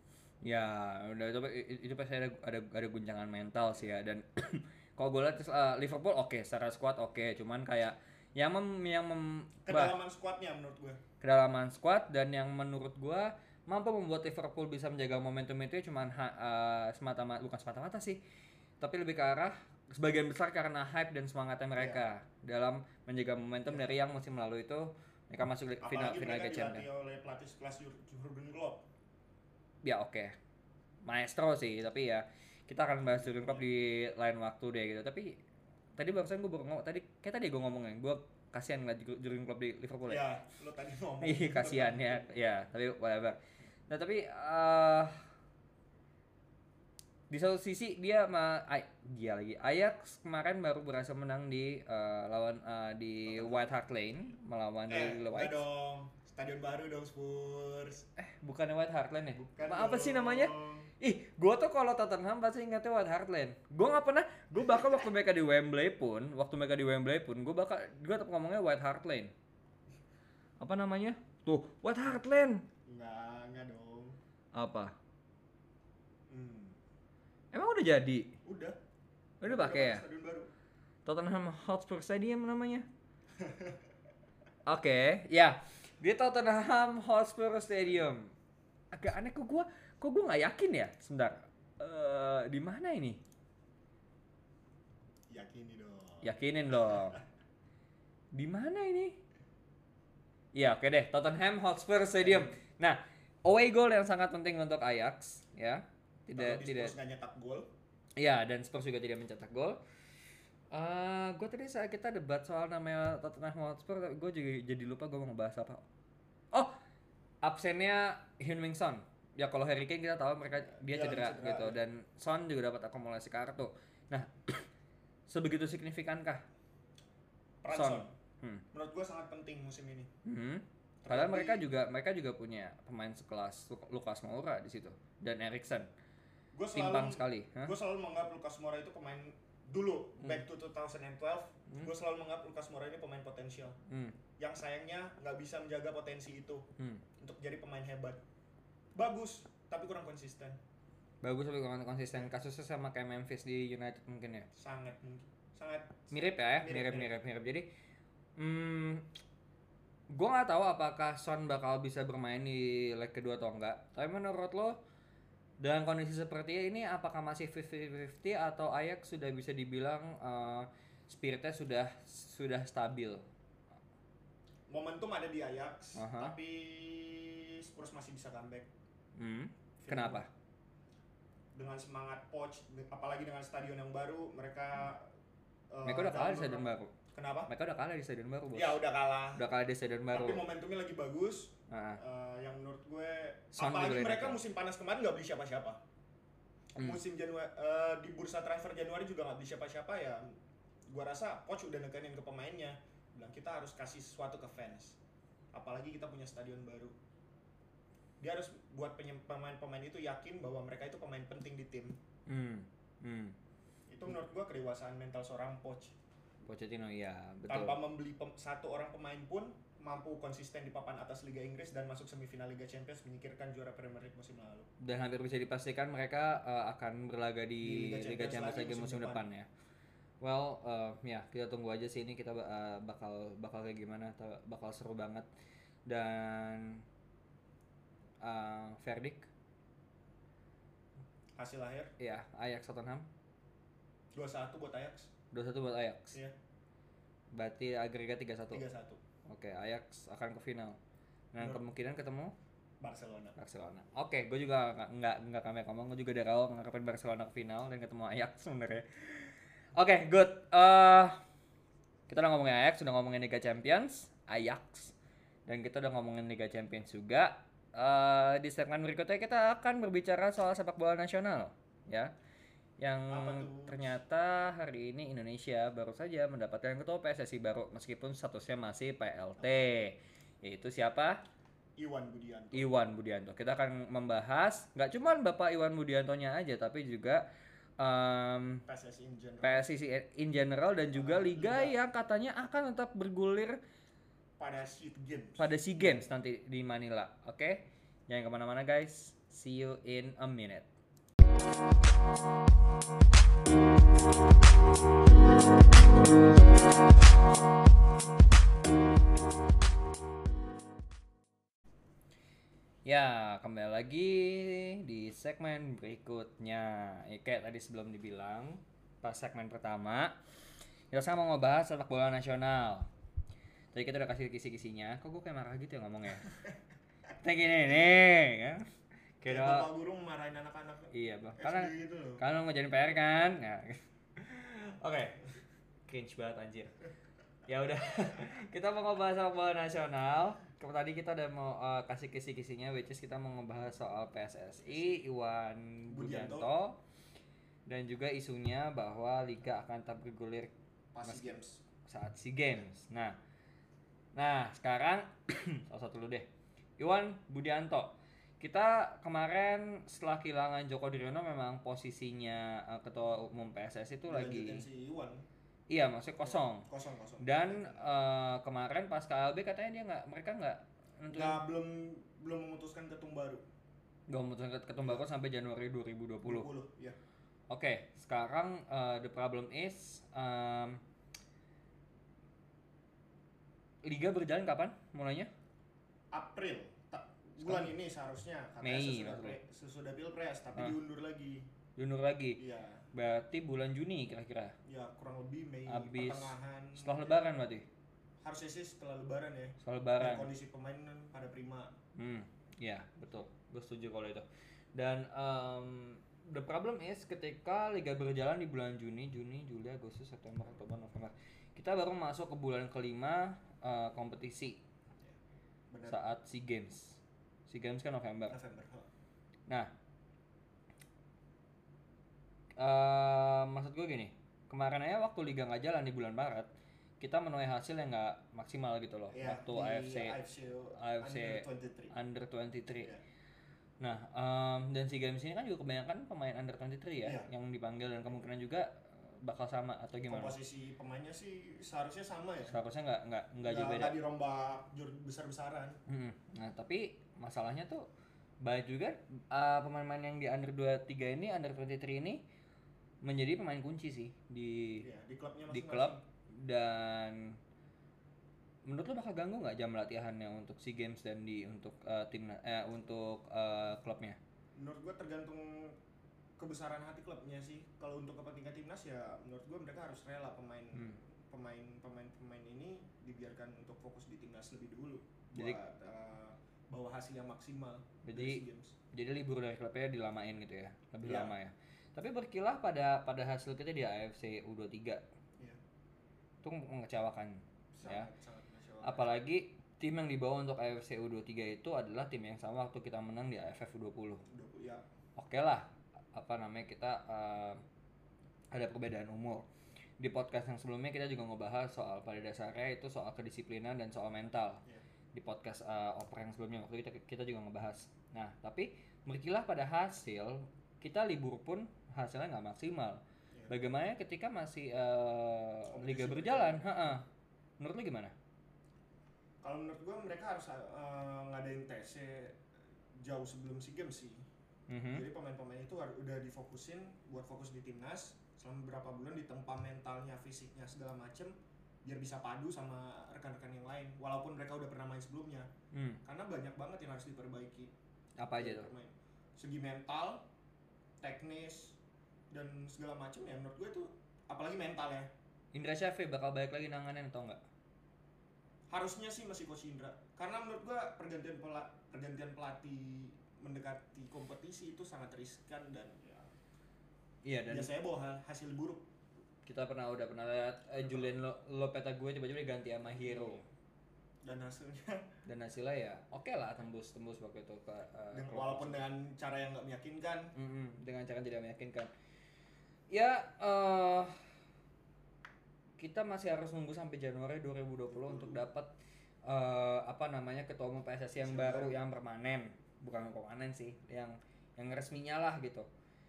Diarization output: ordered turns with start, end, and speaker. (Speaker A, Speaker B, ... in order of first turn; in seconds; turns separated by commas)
Speaker A: 0.4-10.0, Speaker B: 9.7-11.0, Speaker A: 11.2-18.2, Speaker A: 18.8-26.9, Speaker B: 21.8-22.0, Speaker B: 25.8-28.9, Speaker A: 29.8-30.4, Speaker A: 31.0-35.4, Speaker B: 33.0-33.6, Speaker A: 36.0-40.3, Speaker B: 40.1-42.4, Speaker A: 41.2-45.2, Speaker A: 47.3-55.6, Speaker B: 53.3-53.8, Speaker B: 54.9-58.1, Speaker A: 58.2-69.3, Speaker B: 59.3-60.9, Speaker B: 64.5-65.1, Speaker A: 70.6-72.7, Speaker B: 72.9-74.2, Speaker A: 74.5-74.9, Speaker B: 76.3-76.8, Speaker A: 77.5-78.3, Speaker B: 78.5-78.8, Speaker A: 79.4-80.0, Speaker B: 79.4-80.5, Speaker A: 81.1-82.9, Speaker B: 83.4-83.8, Speaker A: 84.7-88.3, Speaker A: 88.9-93.2, Speaker B: 95.3-96.3, Speaker A: 96.2-97.2, Speaker B: 96.9-97.2, Speaker A: 98.3-99.2, Speaker A: 100.5-107.0, Speaker B: 102.2-102.5, Speaker B: 106.3-107.7, Speaker A: 108.2-109.8, Speaker A: 110.7-115.8, Speaker A: 117.4-124.7, Speaker B: 120.8-121.8, Speaker A: 125.3-126.5, Speaker B: 127.6-128.1, Speaker A: 127.7-128.6, Speaker B: 128.7-130.1, Speaker A: 130.2-135.9, Speaker B: 131.0-131.7, Speaker B: 136.5-143.8, Speaker A: 136.7-137.7, Speaker A: 143.9-144.2, Speaker B: 144.4-146.7, Speaker B: 147.2-148.2, Speaker B: 148.9-150.6, Speaker A: 151.2-154.5, Speaker B: 154.6-157.1, Speaker A: 156.1-157.7, Speaker A: 158.4-159.1, Speaker A: 160.1-164.8, Speaker A: 165.6-173.3, Speaker B: 174.7-178.7, Speaker A: 176.0-176.3, Speaker A: 179.2-180.3, Speaker B: 179.8-180.2, Speaker B: 181.6-185.1, Speaker B: 185.7-187.5, Speaker A: 185.8-186.9, Speaker A: 187.5-188.8, Speaker B: 188.5-189.4, Speaker A: 189.3-190.5, Speaker B: 190.1-195.8, Speaker A: 191.7-192.0, Speaker A: 193.6-194.4, Speaker B: 196.8-200.2, Speaker B: 200.9-205.0, Speaker B: 205.5-206.9, Speaker B: 208.2-212.0, Speaker A: 212.3-213.4, Speaker B: 213.9-215.9, Speaker A: 216.4-217.8, Speaker B: 217.5-224.7, Speaker A: 224.8-229.5, Speaker B: 227.6-229.3, Speaker A: 230.2-235.3, Speaker A: 235.9-236.8, Speaker A: 238.2-239.3, Speaker B: 241.4-241.9, Speaker A: 242.0-243.1, Speaker B: 244.2-245.1, Speaker A: 245.3-246.2, Speaker A: 247.3-248.6, Speaker B: 248.5-249.0, Speaker A: 249.3-250.8, Speaker A: 251.3-252.3, Speaker B: 251.4-251.6, Speaker B: 252.8-253.4, Speaker A: 253.4-261.2, Speaker A: 262.1-264.9, Speaker A: 265.5-272.1, Speaker A: 272.8-281.2, Speaker B: 273.1-274.0, Speaker B: 281.8-282.7, Speaker A: 282.5-287.2, Speaker A: 287.8-288.6, Speaker B: 288.7-289.7, Speaker A: 289.4-293.6, Speaker B: 290.9-291.8, Speaker B: 294.4-296.1, Speaker A: 295.4-300.7, Speaker A: 312.9-320.2, Speaker A: 320.9-322.9, Speaker A: 323.7-326.4, Speaker A: 327.2-329.7, Speaker B: 329.3-332.2, Speaker A: 330.9-335.3, Speaker A: 335.9-336.8, Speaker A: 337.5-346.8, Speaker B: 345.9-346.5, Speaker A: 347.7-350.5, Speaker B: 350.9-351.6, Speaker A: 351.0-353.2, Speaker A: 354.2-356.3, Speaker A: 356.8-364.6, Speaker B: 364.1-365.2, Speaker A: 365.7-366.7, Speaker B: 366.2-367.9, Speaker A: 367.2-371.4, Speaker B: 371.1-373.4, Speaker A: 374.1-376.5, Speaker B: 376.2-377.0, Speaker A: 377.5-380.8, Speaker A: 383.8-385.3, Speaker B: 386.1-391.5, Speaker A: 387.4-387.7, Speaker A: 388.6-389.4, Speaker A: 391.8-392.4, Speaker B: 392.4-392.9, Speaker A: 392.9-394.6, Speaker B: 394.7-397.2, Speaker A: 395.7-397.7, Speaker B: 398.2-401.7, Speaker A: 399.6-400.3, Speaker A: 402.0-414.6, Speaker B: 415.7-416.0, Speaker A: 415.9-418.4, Speaker B: 418.3-418.9, Speaker A: 422.6-430.2, Speaker B: 429.1-431.9, Speaker A: 430.8-432.9, Speaker A: 433.8-440.4, Speaker B: 437.0-437.3, Speaker B: 440.1-442.6, Speaker A: 442.5-444.0, Speaker B: 443.4-445.8, Speaker A: 445.9-447.9, Speaker A: 448.4-452.2, Speaker A: 453.0-454.9, Speaker B: 454.8-456.0, Speaker A: 455.5-457.4, Speaker A: 458.7-464.2, Speaker B: 464.6-465.8, Speaker B: 466.4-478.8, Speaker A: 478.0-485.0, Speaker B: 481.0-481.4, Speaker A: 486.4-488.1, Speaker B: 487.8-489.2, Speaker A: 488.8-494.2, Speaker B: 494.3-494.9, Speaker A: 495.2-497.6, Speaker A: 498.5-499.4, Speaker A: 500.0-504.6, Speaker A: 505.1-517.0, Speaker B: 515.7-516.6, Speaker A: 517.6-518.1, Speaker B: 519.4-522.4, Speaker B: 523.0-524.3, Speaker A: 524.7-525.0, Speaker B: 524.9-531.3, Speaker B: 531.9-535.5, Speaker A: 535.7-536.0, Speaker B: 536.0-537.7, Speaker A: 538.2-538.7, Speaker B: 538.3-540.3, Speaker B: 541.0-541.8, Speaker B: 542.3-545.1, Speaker A: 545.5-547.4, Speaker B: 548.7-556.3, Speaker A: 557.2-557.7, Speaker B: 557.5-558.9, Speaker A: 559.5-563.4, Speaker B: 560.8-561.1, Speaker B: 562.9-563.4, Speaker B: 564.2-565.1, Speaker A: 565.2-568.8, Speaker B: 568.1-570.3, Speaker A: 570.4-571.9, Speaker A: 572.9-574.1, Speaker A: 575.8-578.7, Speaker B: 577.9-578.4, Speaker A: 579.3-585.7, Speaker B: 581.2-581.8